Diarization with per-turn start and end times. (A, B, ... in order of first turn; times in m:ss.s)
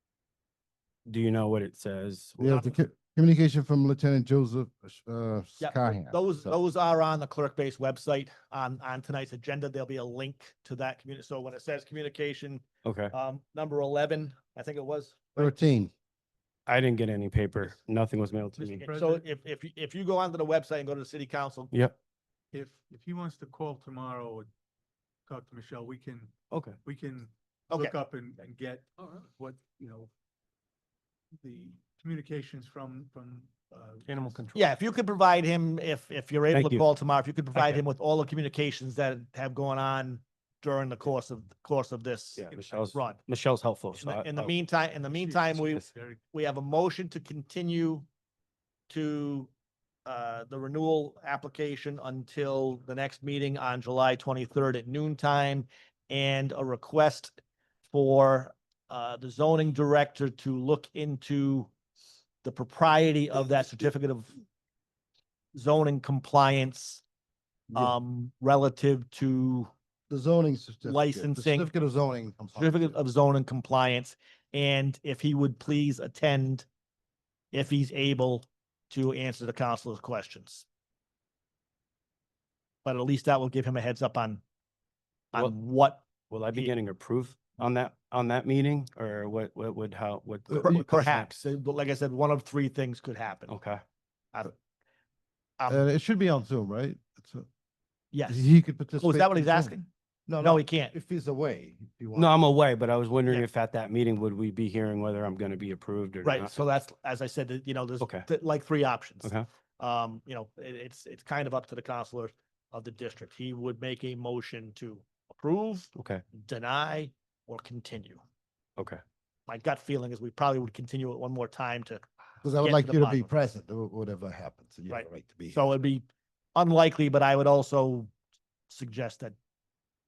0:01.0-0:02.4 A
0:02.4-0:06.6 B
0:02.4-0:02.8 C
0:05.6-0:15.5 C
0:12.8-0:13.1 A
0:15.4-0:15.9 B
0:16.7-0:18.8 A
0:18.6-0:19.2 D
0:18.8-0:21.7 C
0:22.5-0:24.5 D
0:25.3-0:30.1 D
0:26.5-0:26.8 A
0:31.4-0:34.4 D
0:34.2-0:34.5 A
0:34.5-0:42.4 C
0:36.5-0:36.8 A
0:37.5-0:37.8 A
0:42.4-0:44.5 A
0:42.5-0:43.0 D
0:42.9-0:43.2 C
0:44.0-0:48.0 C
0:45.0-0:46.2 D
0:48.9-0:49.5 C
0:50.0-0:57.3 C
0:57.9-1:01.7 C
1:02.4-1:04.3 C
1:05.5-1:07.0 C
1:07.7-1:09.7 C
1:10.1-1:12.9 B
1:10.8-1:11.7 C
1:12.6-1:16.6 C
1:17.5-1:20.6 C
1:22.8-1:24.4 C
1:25.3-1:26.7 C
1:26.3-1:31.4 A
1:30.5-1:30.8 B
1:30.5-1:33.5 C
1:33.5-1:33.8 A
1:35.7-1:37.5 B
1:38.1-1:39.8 C
1:38.3-1:39.8 B
1:40.3-1:42.3 B
1:40.4-1:40.9 C
1:42.1-1:46.6 A
1:46.2-1:58.2 C
1:55.9-1:56.2 A
1:59.5-2:02.0 C
2:02.4-2:05.6 B
2:02.6-2:03.3 C
2:04.9-2:08.1 C
2:08.7-2:09.3 C